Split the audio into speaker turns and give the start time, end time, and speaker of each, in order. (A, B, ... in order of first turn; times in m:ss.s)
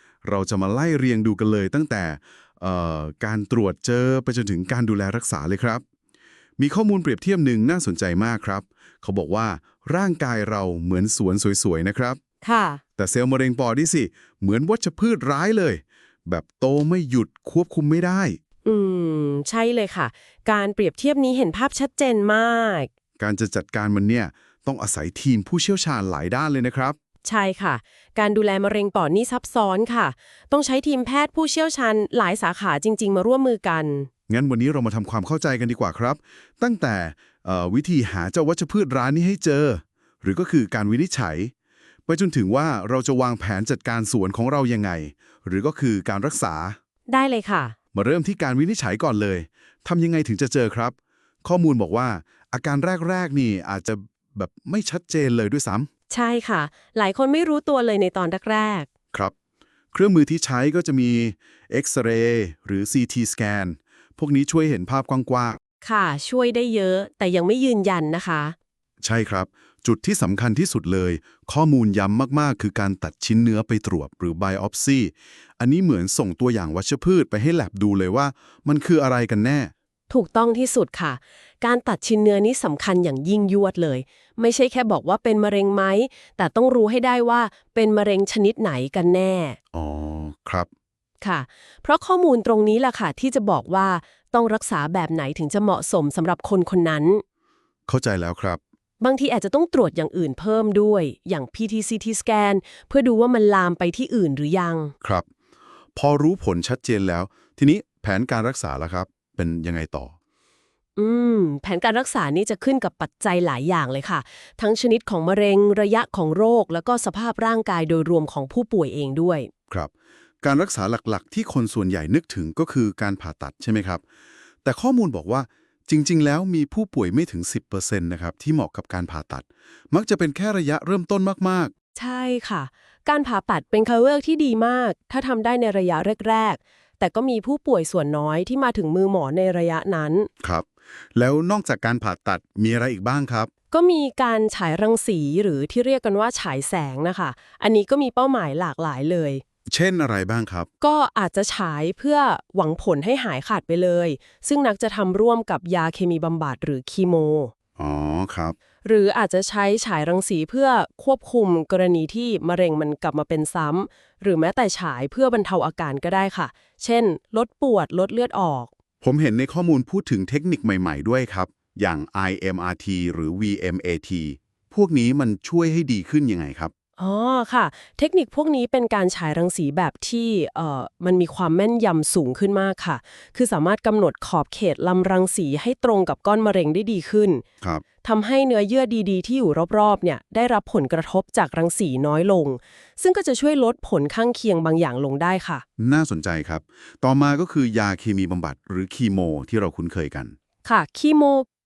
0:00.2-0:05.8 A
0:06.6-0:12.2 A
0:12.4-0:12.8 B
0:13.0-0:18.4 A
0:18.6-0:22.9 B
0:23.2-0:27.0 A
0:27.2-0:34.1 B
0:34.3-0:41.5 A
0:42.1-0:46.8 A
0:47.1-0:47.8 B
0:47.9-0:55.9 A
0:56.1-0:58.9 B
0:59.9-1:05.6 A
1:05.8-1:08.6 B
1:09.0-1:19.7 A
1:20.1-1:29.6 B
1:29.7-1:30.7 A
1:31.2-1:37.2 B
1:37.9-1:38.6 A
1:39.0-1:44.9 B
1:45.0-1:45.3 A
1:45.9-1:50.2 A
1:51.0-1:59.5 B
2:00.4-2:04.0 A
2:04.6-2:11.7 A
2:12.0-2:20.3 B
2:20.4-2:23.5 A
2:23.7-2:29.4 B
2:29.7-2:30.7 A
2:30.8-2:37.5 B
2:37.8-2:38.6 A
2:38.8-2:48.7 B
2:49.0-2:56.7 A
2:57.0-3:07.4 B
3:08.0-3:15.6 B
3:15.8-3:20.4 A
3:20.6-3:21.4 B